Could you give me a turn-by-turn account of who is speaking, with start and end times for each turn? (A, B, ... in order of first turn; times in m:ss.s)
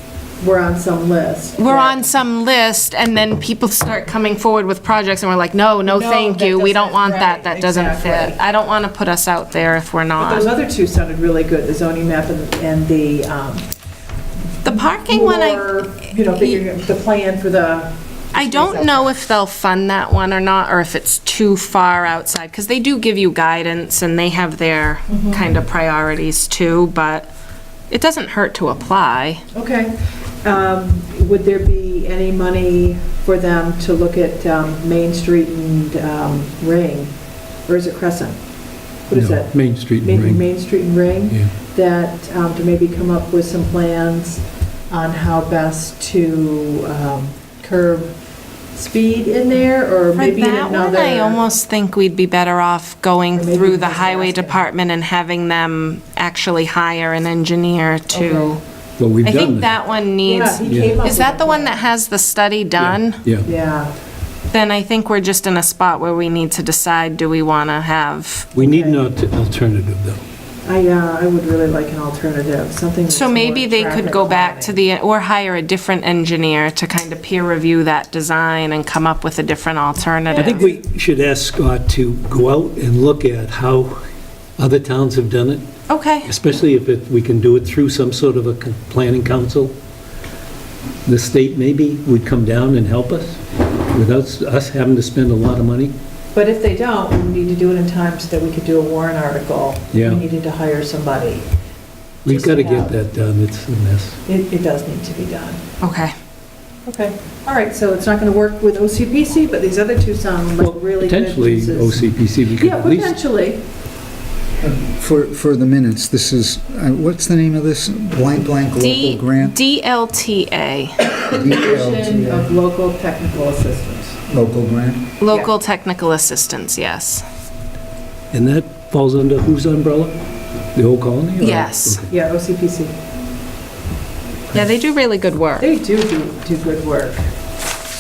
0:00.4-0:02.1 A
0:01.6-0:10.5 B
0:05.9-0:08.4 A
0:10.2-0:13.7 A
0:14.6-0:15.7 B
0:14.9-0:19.2 A
0:16.3-0:16.6 B
0:18.3-0:27.3 B
0:25.1-0:25.4 A
0:27.9-0:29.4 B
0:29.5-0:37.1 A
0:37.6-0:38.4 A
0:39.1-0:48.2 A
0:39.1-0:40.5 C
0:48.7-0:51.4 A
0:50.2-0:58.6 B
0:53.3-0:54.7 A
0:58.1-0:58.6 A
0:59.0-0:59.7 C
0:59.2-1:03.2 B
1:00.2-1:01.9 A
1:00.7-1:01.0 C
1:02.8-1:03.5 C
1:03.4-1:03.9 A
1:04.5-1:08.5 B
1:08.5-1:10.2 C
1:08.6-1:09.0 A
1:10.6-1:14.8 A
1:13.1-1:20.7 B
1:20.3-1:20.8 A
1:20.3-1:24.0 C
1:24.6-1:25.7 C
1:25.9-1:26.3 B
1:26.2-1:29.7 C
1:31.1-1:35.9 C
1:36.3-1:41.5 A
1:39.9-1:40.2 C
1:42.2-1:43.0 A
1:42.2-1:44.2 C
1:44.3-1:45.6 A
1:45.8-1:46.1 B
1:46.8-1:52.0 A
1:50.6-1:53.2 C
1:52.6-1:53.6 A
1:54.6-1:59.6 D
1:58.8-2:01.2 B
2:01.3-2:02.5 D
2:01.3-2:04.2 A
2:04.3-2:05.1 D
2:05.2-2:07.2 B
2:08.3-2:10.2 C
2:10.7-2:12.1 C
2:11.4-2:12.0 B
2:12.1-2:12.9 A
2:14.5-2:15.7 B
2:15.6-2:17.2 A